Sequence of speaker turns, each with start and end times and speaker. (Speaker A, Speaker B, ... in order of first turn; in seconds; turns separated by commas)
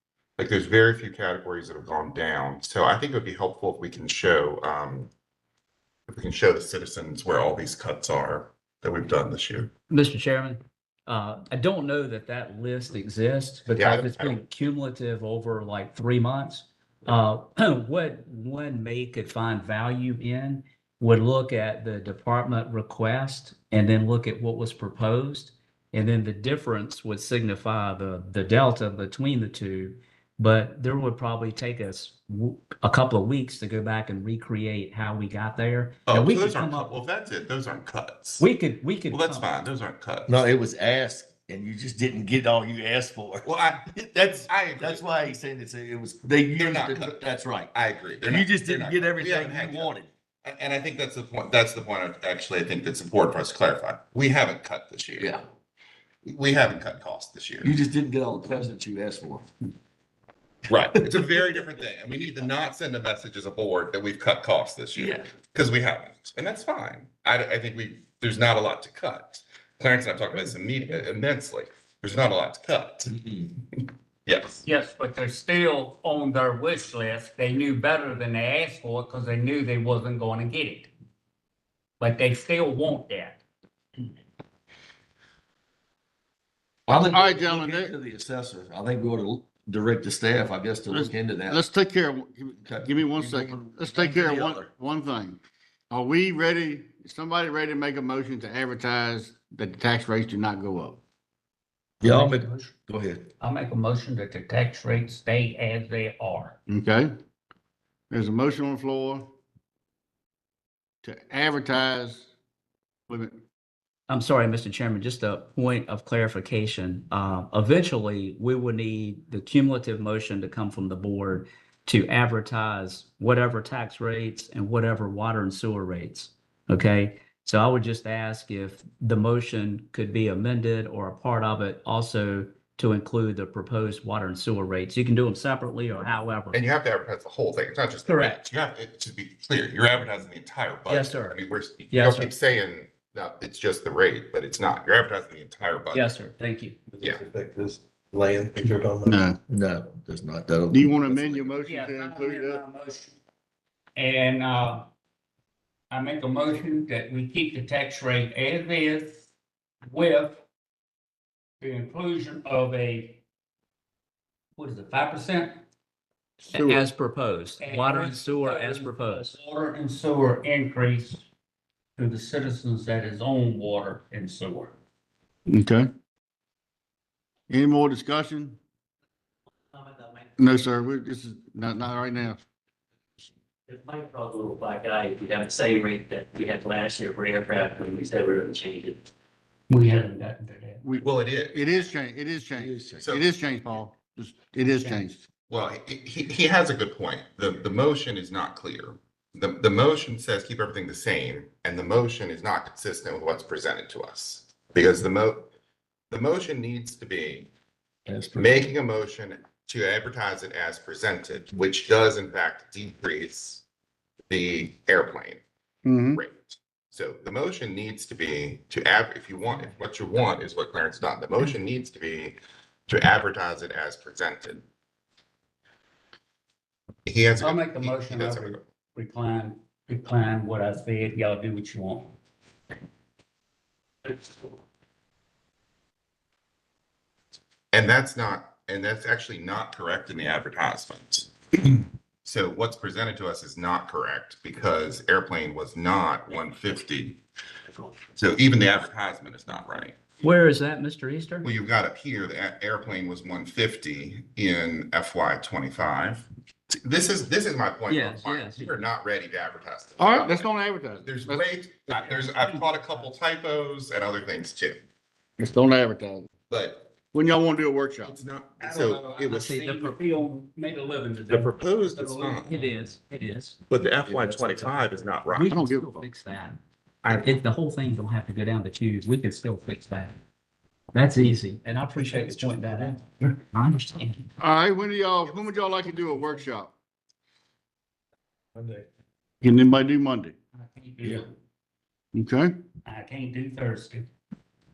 Speaker A: 0.4-5.1, Speaker A: 6.1-9.7, Speaker B: 9.9-37.0, Speaker A: 13.7-14.4, Speaker A: 36.1-38.5, Speaker B: 38.4-39.5, Speaker A: 39.1-40.5, Speaker C: 40.3-50.1, Speaker A: 43.4-45.1, Speaker A: 46.5-55.4, Speaker A: 56.2-57.7, Speaker C: 57.6-59.5, Speaker A: 60.7-74.6, Speaker C: 65.0-65.2, Speaker D: 74.6-80.9, Speaker D: 82.0-83.4, Speaker E: 86.9-87.9, Speaker C: 86.9-91.6, Speaker E: 90.9-95.4, Speaker C: 92.6-94.7, Speaker E: 95.9-101.0, Speaker D: 102.0-102.8, Speaker C: 102.0-103.3, Speaker D: 103.4-106.6, Speaker E: 106.7-107.1, Speaker E: 108.1-109.2, Speaker E: 111.0-112.3, Speaker E: 113.1-113.4, Speaker B: 114.1-136.6, Speaker A: 136.5-146.1, Speaker B: 138.0-138.5, Speaker B: 140.9-141.4, Speaker B: 141.9-142.3, Speaker B: 145.9-146.8, Speaker F: 146.9-149.1, Speaker E: 149.1-149.4, Speaker C: 149.5-151.6, Speaker E: 150.7-152.6, Speaker D: 151.6-153.2, Speaker D: 153.9-154.9, Speaker D: 155.9-159.2, Speaker D: 159.8-160.4, Speaker D: 161.6-163.2, Speaker D: 164.6-165.6, Speaker B: 166.5-169.4, Speaker E: 166.5-166.8, Speaker D: 167.6-171.2, Speaker D: 172.0-174.7, Speaker E: 175.5-175.9, Speaker E: 177.5-178.6, Speaker E: 180.4-182.4, Speaker G: 183.7-189.0, Speaker D: 189.7-190.8, Speaker E: 190.8-195.2, Speaker A: 191.0-191.9, Speaker C: 192.6-193.1, Speaker A: 193.0-193.3, Speaker D: 194.7-195.0, Speaker A: 195.5-205.5, Speaker A: 206.1-207.5, Speaker C: 208.1-208.7, Speaker A: 208.3-213.6, Speaker A: 214.3-215.4, Speaker E: 215.8-216.2, Speaker A: 216.1-222.4, Speaker A: 222.9-224.6, Speaker A: 227.1-228.6, Speaker D: 227.4-232.1, Speaker A: 237.7-247.2, Speaker A: 248.1-249.9, Speaker B: 250.2-251.5, Speaker A: 251.4-260.5, Speaker B: 257.9-258.8, Speaker E: 260.0-261.5, Speaker A: 261.0-264.8, Speaker D: 262.2-262.6, Speaker E: 265.4-266.3, Speaker A: 266.5-266.9, Speaker E: 267.1-268.1, Speaker A: 268.0-269.5, Speaker D: 268.6-272.4, Speaker B: 269.3-270.0, Speaker A: 271.3-272.6, Speaker B: 272.3-273.6, Speaker A: 273.7-275.5, Speaker C: 274.1-274.7, Speaker B: 275.3-276.6, Speaker E: 275.5-276.0, Speaker A: 277.0-277.3, Speaker B: 277.2-280.1, Speaker B: 280.9-284.3, Speaker E: 284.4-286.7, Speaker A: 285.2-286.3, Speaker E: 289.4-290.3, Speaker D: 290.6-291.2, Speaker E: 292.1-292.5, Speaker D: 292.8-294.1